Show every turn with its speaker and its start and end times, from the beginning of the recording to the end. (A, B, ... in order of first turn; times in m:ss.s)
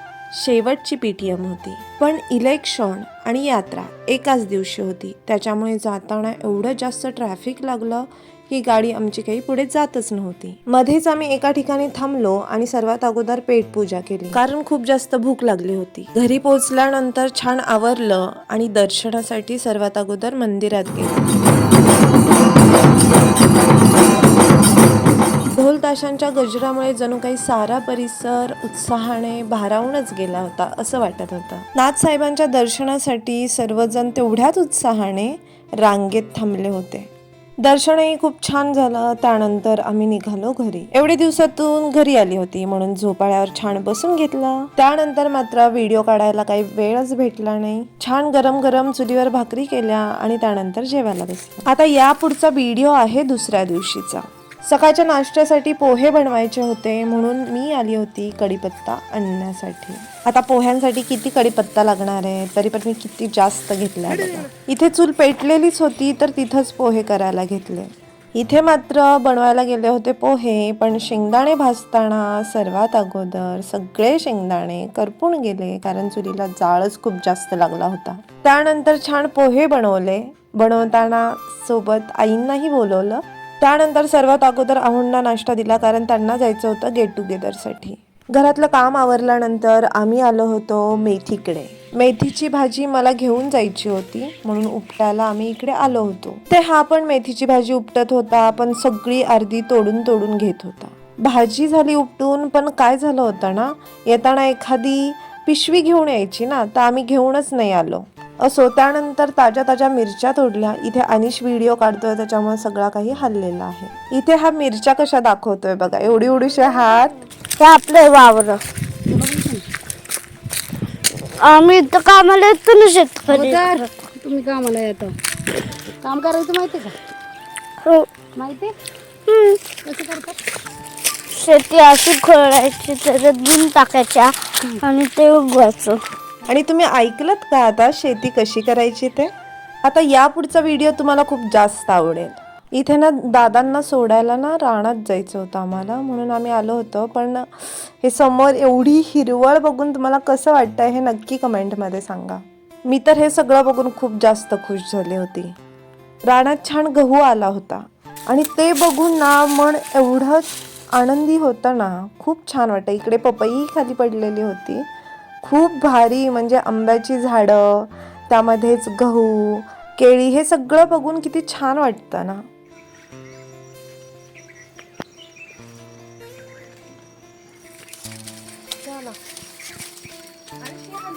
0:00.3-0:21.4 A
0:25.5-1:57.1 A
1:57.6-1:58.6 B
1:59.1-1:59.6 C
2:01.4-2:04.0 B
2:03.3-2:05.2 C
2:06.0-2:07.0 C
2:07.8-2:08.3 B
2:08.4-2:08.7 C
2:09.3-2:09.7 B
2:09.8-2:10.4 C
2:11.3-2:16.0 B
2:16.5-2:19.3 A
2:19.8-2:35.5 A
2:36.2-2:44.9 A
2:45.4-2:52.4 A
2:58.8-2:59.2 A